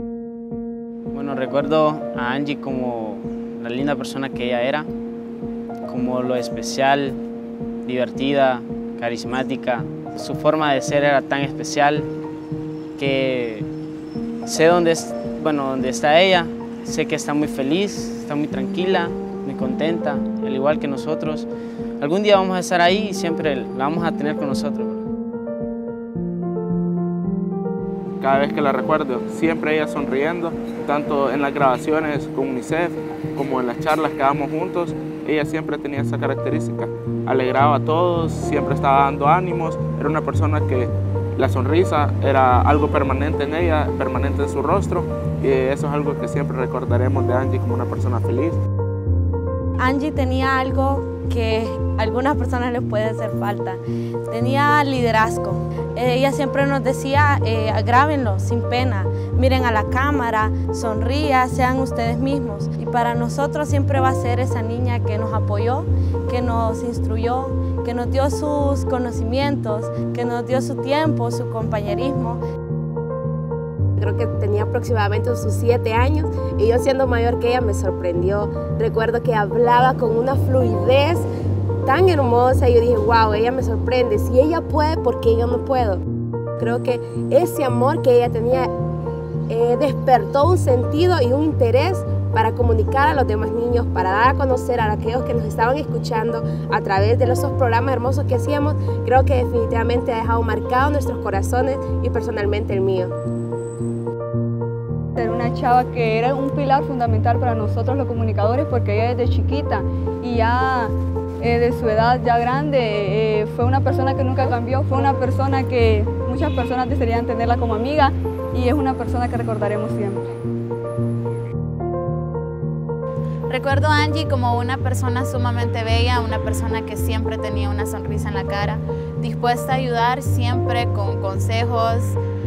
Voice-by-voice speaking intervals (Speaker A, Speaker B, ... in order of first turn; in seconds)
Speaker A: 1.1-4.9, 5.9-7.2, 7.8-12.1, 13.0-13.7, 14.4-21.5, 22.0-25.0
Speaker B: 28.2-48.6
Speaker C: 49.8-72.4
Speaker D: 74.0-81.3, 81.8-86.0, 86.6-88.7, 89.5-103.1
Speaker E: 105.2-120.2
Speaker F: 123.5-132.2